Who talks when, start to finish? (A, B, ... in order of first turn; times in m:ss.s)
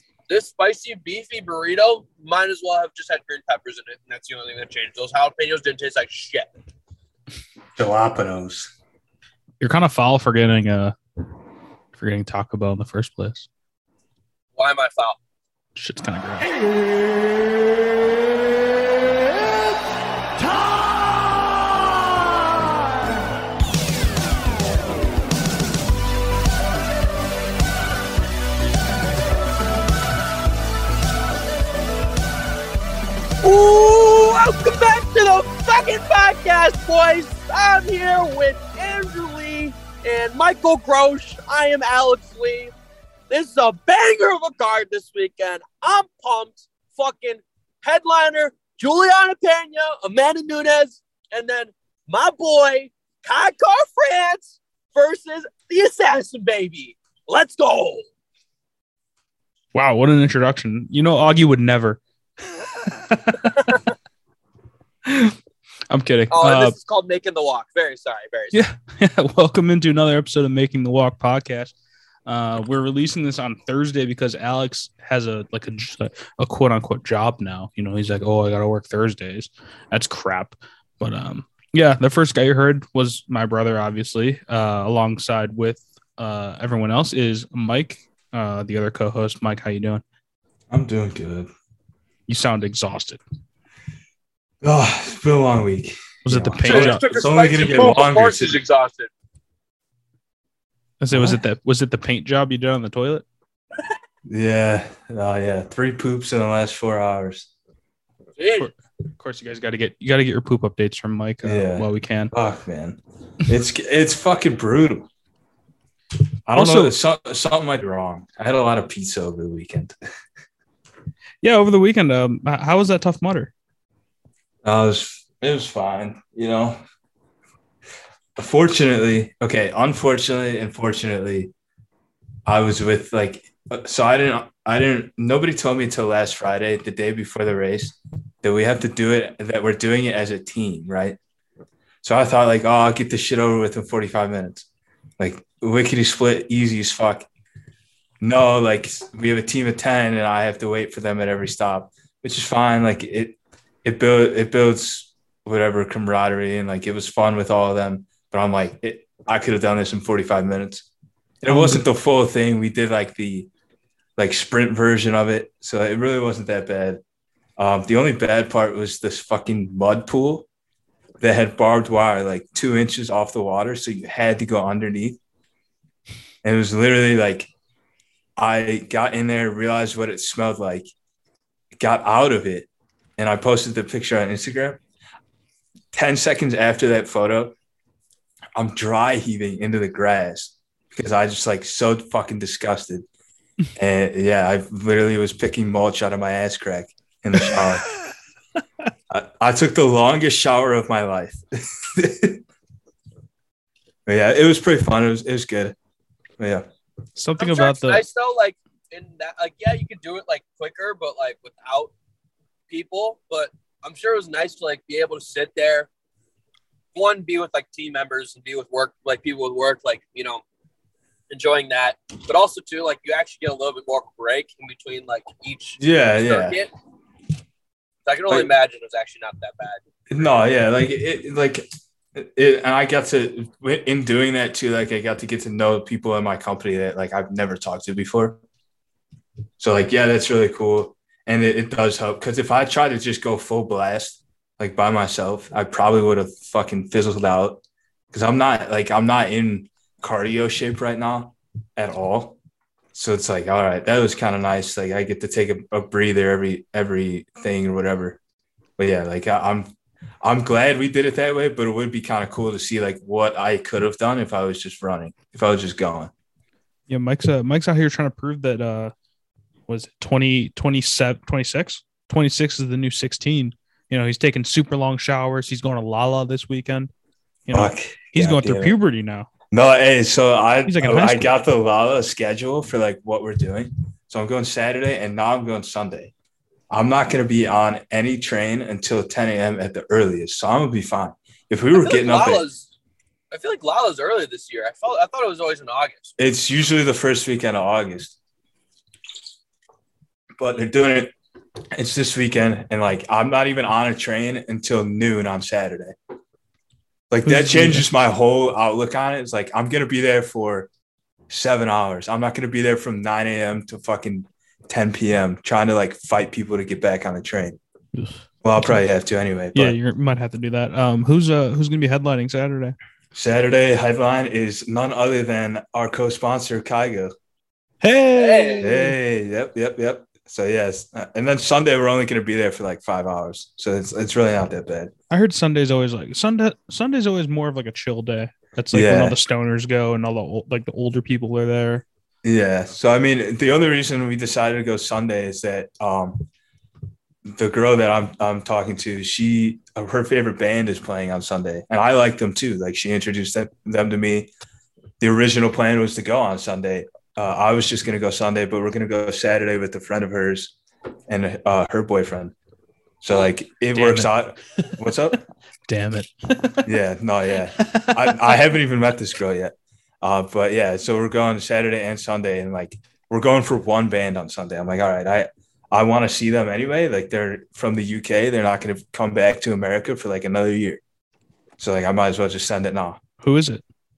0:00.3-0:06.5 A
0:07.8-0:08.7 B
0:09.6-0:11.0 C
0:11.9-0:13.5 C
0:14.6-0:15.2 A
0:15.8-0:16.5 C
0:33.4-0:42.7 A
0:43.3-0:58.1 A
0:59.7-1:02.0 C
1:02.6-1:03.8 C
1:05.1-1:05.4 C
1:05.9-1:06.8 C
1:06.3-1:08.6 A
1:08.5-1:11.7 C
1:12.3-1:30.0 C
1:30.7-1:31.5 B
1:32.3-1:33.2 C
1:34.6-1:38.6 B
1:36.2-1:37.1 C
1:36.6-1:39.1 A
1:41.0-1:43.2 C
1:41.1-1:41.4 B
1:44.3-1:47.5 B
1:48.4-1:48.7 A
1:48.6-1:52.3 C
1:51.4-1:55.1 B
1:56.5-2:00.0 B
1:56.5-1:57.0 C
2:01.4-2:03.5 C
2:04.6-2:06.8 B
2:08.4-2:11.5 B
2:12.5-2:21.2 B
2:22.0-2:24.6 B
2:25.2-2:27.3 B
2:28.2-2:40.9 B
2:41.4-2:43.5 B
2:41.5-2:41.8 C
2:44.2-2:47.0 B
2:47.6-2:50.5 B
2:51.2-2:55.2 B
2:56.4-2:57.5 B
2:58.4-3:00.9 B
3:01.8-3:04.8 B
3:05.9-3:07.5 B
3:08.6-3:13.1 B
3:13.8-3:17.9 B
3:19.1-3:22.4 B
3:24.1-3:25.8 B
3:26.4-3:26.7 B
3:27.2-3:28.0 C
3:27.4-3:31.9 A
3:32.7-3:35.9 A
3:37.0-3:40.4 A
3:41.3-3:46.7 A
3:45.8-3:46.6 B
3:48.0-3:49.8 A
3:50.1-3:58.4 B
3:59.6-4:07.6 B
4:08.1-4:12.4 B
4:12.9-4:18.2 B
4:18.8-4:26.1 B
4:26.9-4:28.9 C
4:29.7-4:36.9 C
4:37.5-4:39.3 C
4:37.5-4:38.8 B
4:39.5-4:46.1 B
4:40.7-4:41.3 C
4:46.7-4:52.4 B
4:51.7-4:52.7 A
4:53.3-4:56.1 A
4:56.2-4:58.2 B
5:00.4-5:01.1 B
5:01.7-5:06.0 B
5:07.1-5:10.7 B
5:07.2-5:07.9 C
5:11.3-5:17.6 B
5:18.0-5:18.8 C
5:18.4-5:19.8 B
5:19.5-5:22.8 C
5:23.1-5:27.1 B
5:27.8-5:29.0 C
5:28.2-5:28.8 A
5:28.6-5:34.9 B
5:35.1-5:41.8 C
5:38.7-5:39.2 B
5:42.2-5:46.3 B
5:47.2-5:54.3 B
5:55.0-6:00.6 B
6:01.1-6:02.3 B
6:03.0-6:05.2 B
6:03.8-6:04.1 C
6:05.7-6:06.7 C
6:06.6-6:20.8 B
6:07.6-6:08.4 C
6:21.6-6:23.0 B
6:23.2-6:23.6 C